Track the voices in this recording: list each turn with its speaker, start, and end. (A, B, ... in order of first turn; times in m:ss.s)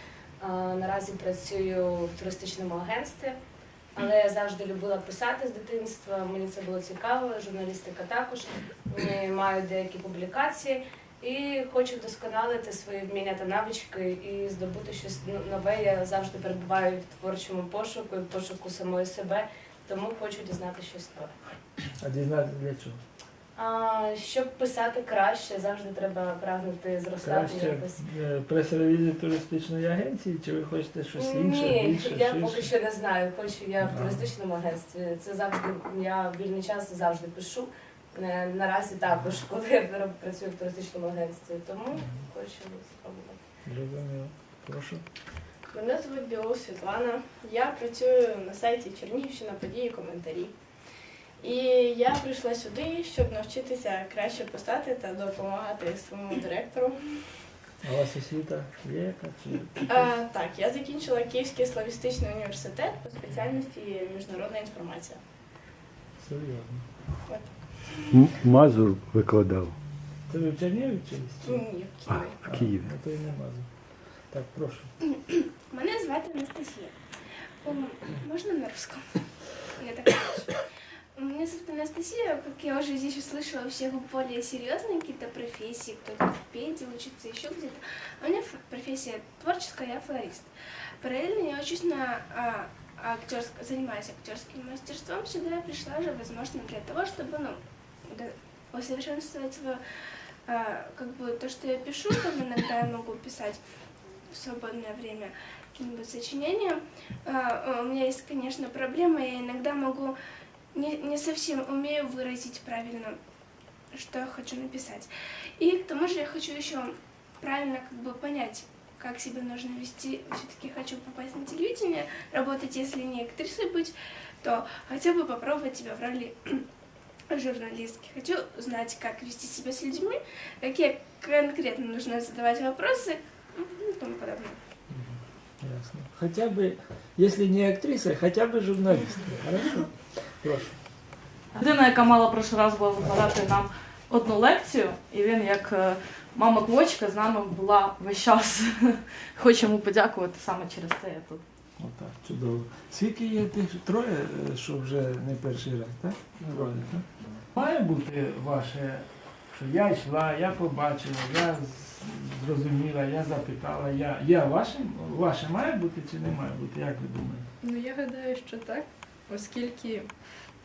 0:00.4-0:03.4 A
0:03.9-0:21.3 A
0:22.0-0:23.0 B
0:23.5-0:28.0 A
0:27.2-0:32.7 B
0:31.2-0:43.4 A
0:33.8-0:34.2 B
0:43.6-0:45.0 B
0:45.7-0:50.8 C
0:51.4-0:57.4 C
0:57.8-1:00.0 B
0:59.9-1:05.2 C
1:06.2-1:06.9 B
1:07.2-1:08.1 C
1:08.1-1:09.7 D
1:10.3-1:11.7 B
1:11.4-1:12.4 C
1:12.2-1:12.9 D
1:12.5-1:14.9 B
1:15.7-1:16.9 E
1:17.6-1:20.6 E
1:21.2-1:30.5 E
1:31.0-1:39.8 E
1:40.5-1:43.6 E
1:44.3-1:50.1 E
1:50.7-1:53.2 E
1:53.9-2:06.6 E
2:07.3-2:14.6 E
2:14.9-2:20.8 B
2:21.5-2:31.4 F
2:31.8-2:47.5 B
2:47.6-2:50.2 G